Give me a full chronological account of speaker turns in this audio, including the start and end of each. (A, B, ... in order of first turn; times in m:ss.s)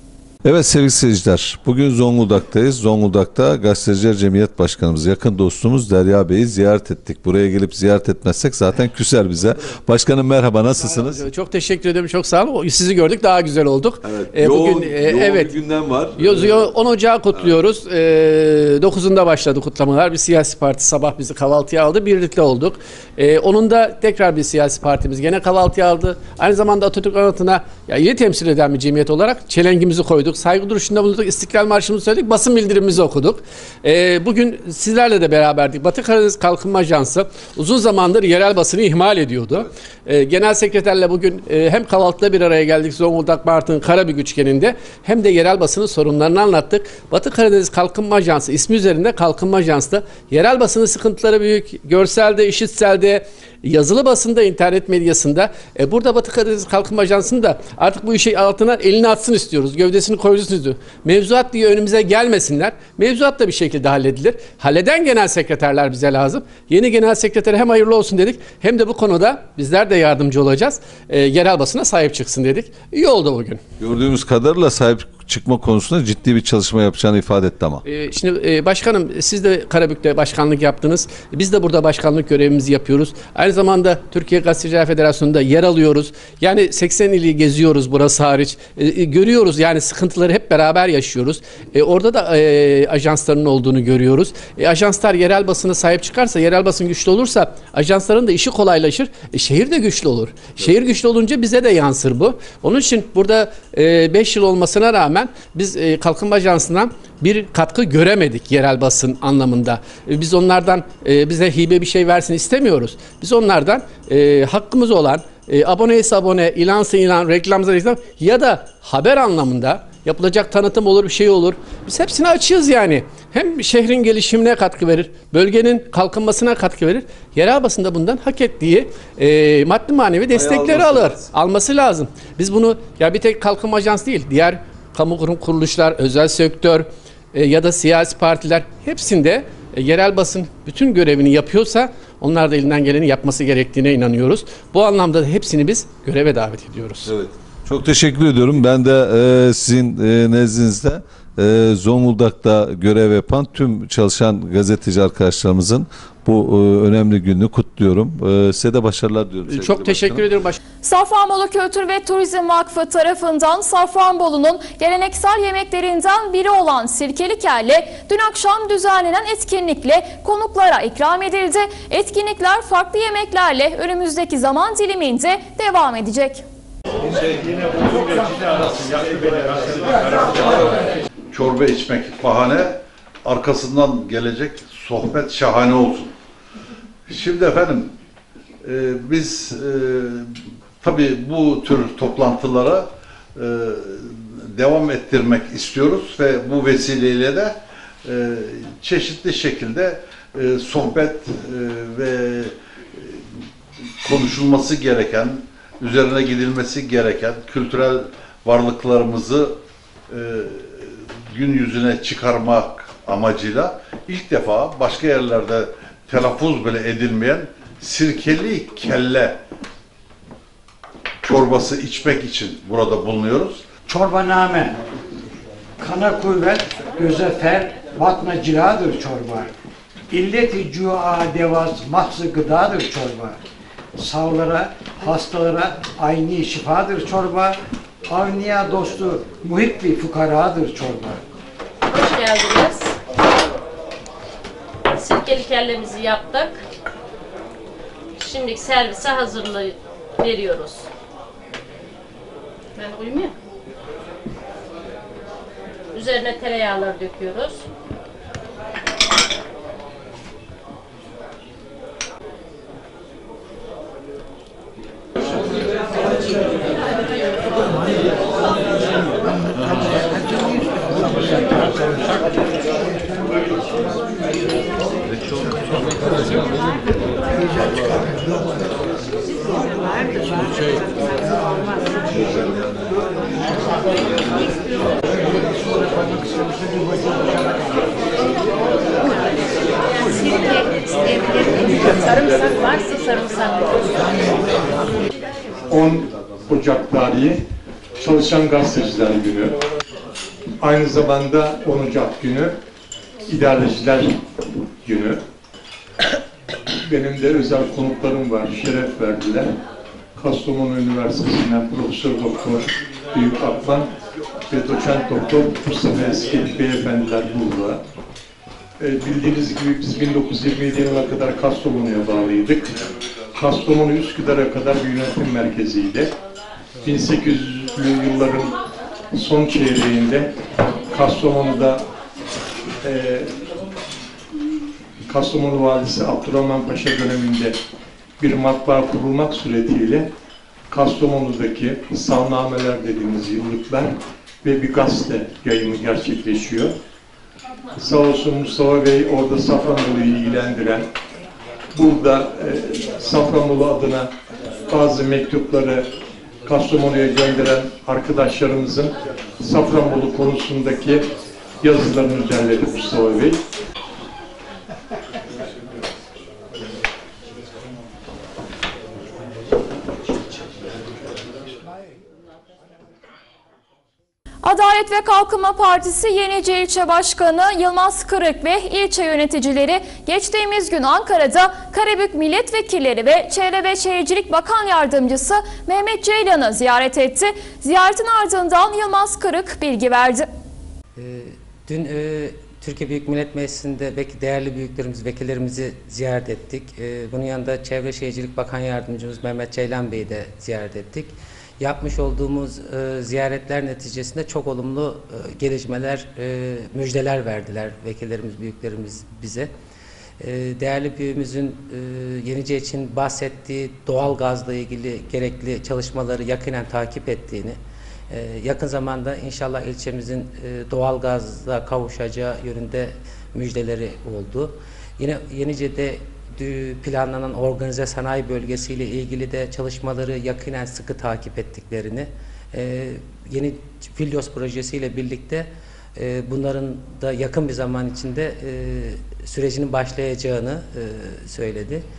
0:00.4-0:11.2 A
0:10.8-0:15.6 B
0:14.0-0:16.7 A
0:16.1-1:13.6 B
1:13.8-1:17.8 A
1:17.8-2:27.1 B
2:10.3-2:11.2 A
2:27.0-2:40.3 A
2:39.5-2:40.6 B
2:40.8-2:56.4 C
3:01.3-3:06.1 D
3:07.1-3:07.9 D
3:08.6-3:23.4 D
3:24.0-3:39.4 D
3:41.2-3:43.6 D
3:43.9-3:44.8 E
3:45.8-3:49.5 E
3:50.1-3:53.4 E
3:54.0-4:01.2 E
4:01.9-4:03.0 F
4:04.9-4:06.6 F
4:08.2-4:10.8 F
4:12.8-4:13.3 F
4:15.9-4:17.6 F
4:51.0-4:53.2 G
4:52.4-4:53.7 F
4:55.7-4:57.4 G
4:58.0-4:59.6 G
5:00.6-5:02.6 G
5:03.3-5:04.2 G
5:04.8-5:05.2 G
5:06.9-5:09.5 G
5:10.2-5:13.9 G
5:14.5-5:17.8 G
5:18.8-5:22.8 G
5:23.4-5:26.1 G
5:26.8-5:28.6 G
5:29.1-5:30.3 G
5:30.9-5:31.8 G
5:32.8-5:33.4 G
5:35.0-5:37.6 G
5:38.2-5:40.1 G
5:40.7-5:46.7 G
5:47.8-5:50.9 G
5:51.7-5:54.1 G
5:54.7-5:55.9 G
5:56.4-6:01.0 G
6:01.6-6:03.4 G
6:14.4-6:30.3 C
6:31.0-6:49.5 H
6:50.2-6:57.6 H
6:58.1-7:21.8 H